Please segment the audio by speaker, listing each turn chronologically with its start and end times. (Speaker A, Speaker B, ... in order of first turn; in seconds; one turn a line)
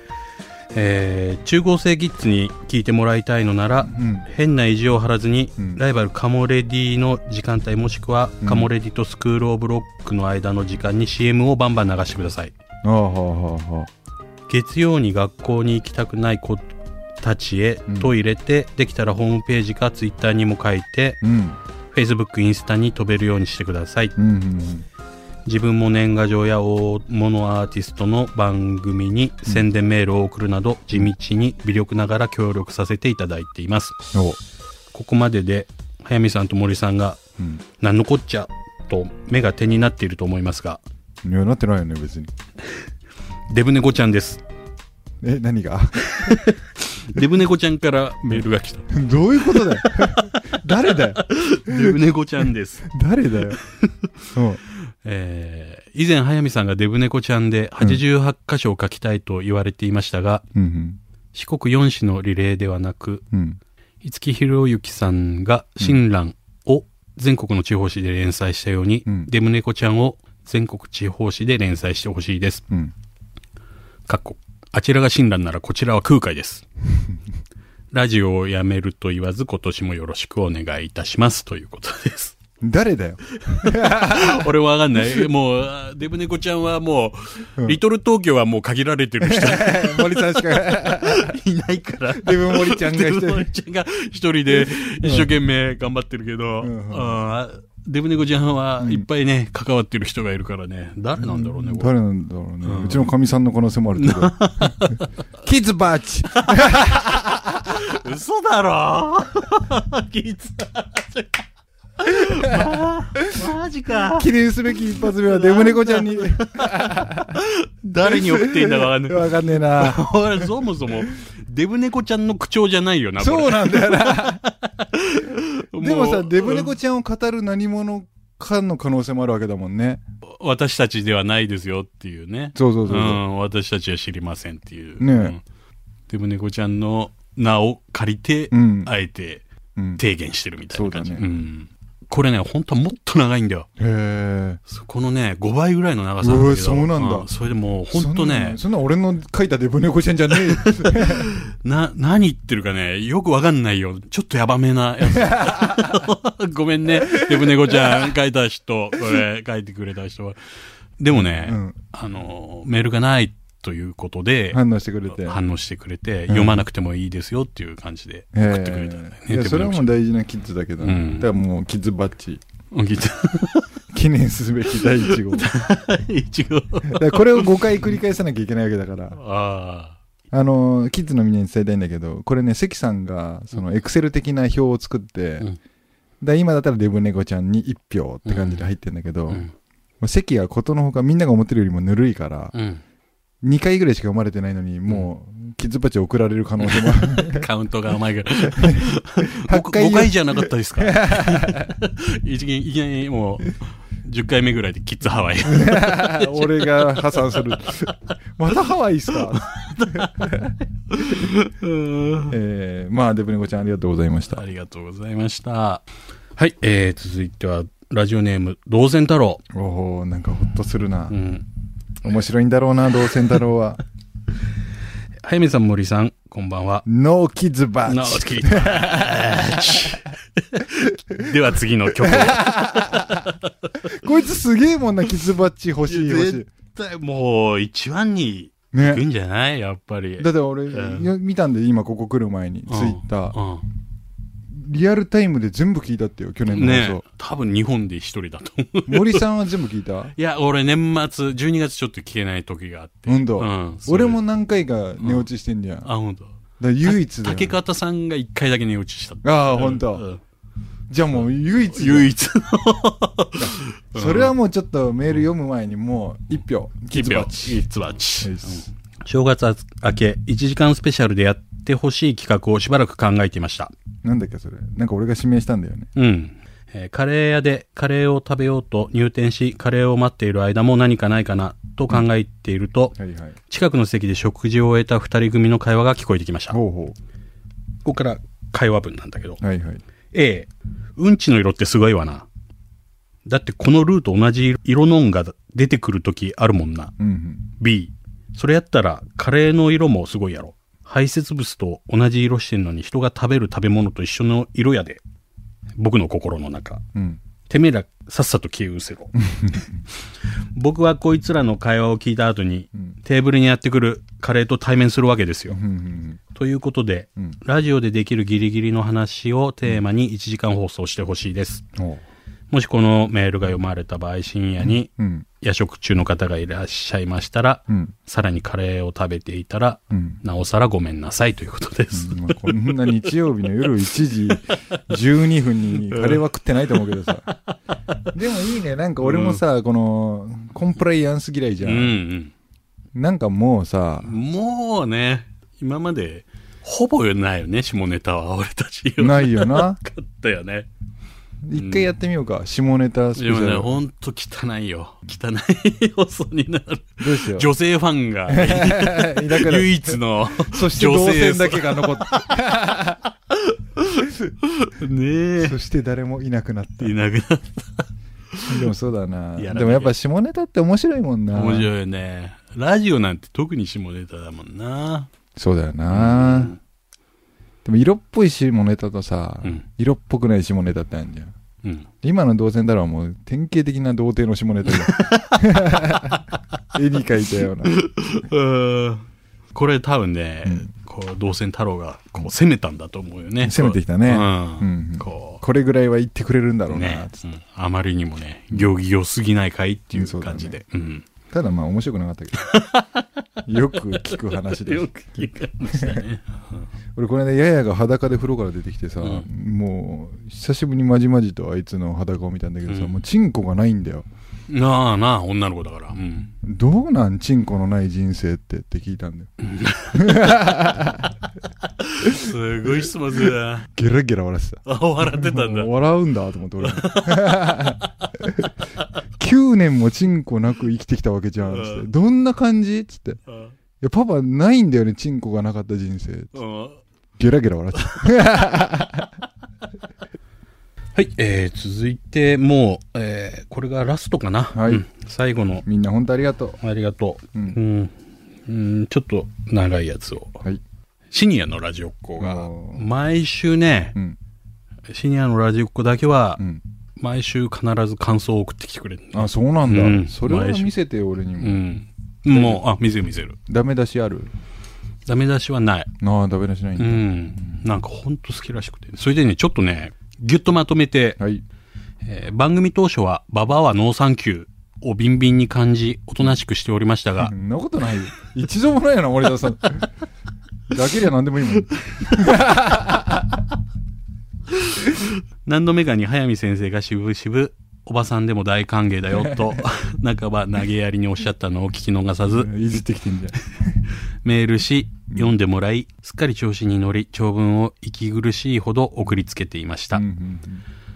Speaker A: 0.7-12.5
Speaker B: 3.9-4.3
Speaker B: 8.4-8.7
Speaker B: 12.8-13.9
Speaker A: 14.5-21.2
Speaker B: 17.9-18.1
Speaker B: 21.2-21.6
Speaker A: 21.9-24.1
Speaker B: 24.2-24.9
Speaker A: 25.5-34.0
Speaker B: 34.1-34.4
Speaker A: 34.9-37.2
Speaker B: 37.4-37.6
Speaker A: 37.8-40.8
Speaker B: 41.2-42.3
Speaker A: 43.5-44.4
Speaker B: 45.2-46.5
Speaker A: 46.1-48.9
Speaker B: 48.9-52.0
Speaker A: 49.5-52.9
Speaker B: 52.8-53.6
Speaker A: 53.7-60.5
Speaker B: 54.3-54.6
Speaker B: 60.5-61.0
Speaker A: 61.3-63.2
Speaker B: 63.3-63.6
Speaker A: 64.0-72.6
Speaker A: 74.1-76.7
Speaker A: 77.9-82.4
Speaker B: 82.6-84.5
Speaker A: 83.5-101.9
Speaker B: 85.0-85.3
Speaker B: 89.2-91.4
Speaker B: 92.1-93.5
Speaker B: 94.5-95.3
Speaker B: 96.6-97.2
Speaker B: 98.8-99.1
Speaker B: 101.2-104.8
Speaker A: 102.6-103.1
Speaker A: 104.0-105.1
Speaker B: 105.4-107.8
Speaker A: 106.5-111.4
Speaker A: 112.0-114.3
Speaker B: 112.4-112.7
Speaker B: 114.0-117.4
Speaker A: 115.0-126.7
Speaker B: 118.0-120.7
Speaker B: 123.2-124.5
Speaker B: 125.8-130.0
Speaker A: 130.4-135.4
Speaker B: 132.6-133.2
Speaker B: 135.0-135.4
Speaker A: 136.1-139.4
Speaker B: 138.5-138.9
Speaker B: 139.8-140.0
Speaker A: 140.0-143.7
Speaker B: 140.7-141.3
Speaker B: 143.8-144.6
Speaker A: 144.7-148.6
Speaker B: 146.2-147.3
Speaker B: 147.9-151.3
Speaker A: 150.3-160.4
Speaker B: 155.0-156.1
Speaker B: 157.0-158.1
Speaker A: 161.0-169.9
Speaker B: 161.1-161.8
Speaker B: 164.5-165.4
Speaker B: 166.3-166.6
Speaker B: 168.3-172.4
Speaker A: 170.8-171.3
Speaker A: 172.7-173.7
Speaker B: 173.9-175.5
Speaker A: 174.8-177.5
Speaker B: 176.9-179.2
Speaker A: 179.1-180.0
Speaker B: 180.3-185.5
Speaker B: 186.2-189.5
Speaker A: 188.3-188.7
Speaker B: 190.0-192.6
Speaker A: 192.5-192.8
Speaker B: 193.4-197.5
Speaker A: 196.6-207.9
Speaker B: 198.4-201.8
Speaker B: 205.4-211.3
Speaker A: 209.1-212.3
Speaker B: 212.3-214.4
Speaker A: 214.3-215.8
Speaker A: 216.4-219.4
Speaker B: 219.5-221.2
Speaker A: 221.1-221.4
Speaker B: 222.0-223.8
Speaker A: 225.2-226.8
Speaker B: 226.9-230.0
Speaker A: 227.9-233.8
Speaker B: 231.9-233.3
Speaker B: 233.8-236.5
Speaker A: 235.9-241.1
Speaker B: 238.7-239.1
Speaker B: 240.2-243.4
Speaker A: 242.7-243.7
Speaker B: 244.5-247.0
Speaker A: 246.5-249.3
Speaker B: 248.9-250.1
Speaker A: 250.2-254.2
Speaker B: 253.1-255.9
Speaker A: 255.0-255.3
Speaker A: 255.8-256.3
Speaker B: 256.6-257.6
Speaker A: 256.8-260.2
Speaker B: 259.2-260.1
Speaker B: 260.9-262.1
Speaker A: 261.7-264.3
Speaker B: 263.4-267.6
Speaker A: 266.9-273.7
Speaker B: 268.2-268.7
Speaker B: 274.0-275.9
Speaker A: 275.9-283.0
Speaker B: 283.0-283.4
Speaker A: 283.5-286.6
Speaker B: 286.5-287.0
Speaker A: 287.9-289.4
Speaker B: 289.4-289.8
Speaker A: 290.1-292.3
Speaker A: 293.3-296.9
Speaker B: 297.0-297.5
Speaker A: 297.6-305.0
Speaker A: 305.8-306.8
Speaker B: 306.9-307.2
Speaker A: 307.5-309.7
Speaker B: 309.2-309.6
Speaker A: 310.6-315.6
Speaker B: 315.5-316.2
Speaker A: 316.3-321.6
Speaker B: 321.8-322.0
Speaker A: 322.5-332.9
Speaker B: 324.6-325.2
Speaker B: 329.9-330.2
Speaker B: 331.9-337.3
Speaker A: 335.8-338.0
Speaker B: 338.1-341.9
Speaker A: 339.0-339.4
Speaker A: 341.6-342.3
Speaker B: 342.9-344.2
Speaker A: 344.0-350.7
Speaker B: 349.0-349.8
Speaker B: 351.4-353.8
Speaker A: 351.6-351.9
Speaker A: 353.2-362.4
Speaker B: 357.0-357.5
Speaker B: 358.3-363.0
Speaker A: 363.3-365.6
Speaker B: 365.4-366.9
Speaker A: 366.8-368.7
Speaker B: 368.5-371.7
Speaker A: 369.4-369.9
Speaker A: 371.3-375.1
Speaker B: 375.4-376.6
Speaker A: 375.9-376.6
Speaker B: 377.6-381.3
Speaker B: 382.0-387.8
Speaker A: 384.6-386.2
Speaker A: 387.7-395.4
Speaker B: 393.4-397.2
Speaker A: 396.7-401.1
Speaker B: 399.9-400.6
Speaker B: 401.3-402.4
Speaker A: 402.4-403.1
Speaker B: 403.5-404.9
Speaker A: 403.8-406.7
Speaker B: 405.7-406.1
Speaker B: 407.0-414.1
Speaker A: 409.0-409.3
Speaker A: 412.7-413.0
Speaker A: 414.5-416.3
Speaker B: 416.4-419.3
Speaker A: 419.4-420.3
Speaker B: 419.9-421.1
Speaker A: 421.8-423.7
Speaker B: 422.0-428.5
Speaker A: 424.6-425.7
Speaker A: 426.6-428.1
Speaker B: 429.2-433.2
Speaker A: 431.4-431.9
Speaker A: 433.3-433.6
Speaker B: 433.8-436.4
Speaker A: 436.3-436.8
Speaker B: 437.2-439.1
Speaker A: 437.8-438.2
Speaker A: 440.9-445.6
Speaker B: 444.5-444.9
Speaker B: 445.6-446.6
Speaker A: 446.6-447.9
Speaker A: 448.4-450.4
Speaker A: 451.1-454.0
Speaker B: 452.2-452.9
Speaker A: 454.9-456.4
Speaker A: 457.0-460.7
Speaker B: 459.1-461.6
Speaker A: 461.4-463.4
Speaker B: 462.3-462.6
Speaker B: 463.5-464.3
Speaker A: 465.1-465.9
Speaker B: 466.0-467.1
Speaker A: 466.8-471.2
Speaker A: 472.0-477.3
Speaker B: 477.2-479.9
Speaker B: 480.7-483.4
Speaker A: 484.6-492.5
Speaker B: 489.1-489.6
Speaker B: 492.2-493.6
Speaker A: 494.2-500.0
Speaker B: 499.9-500.6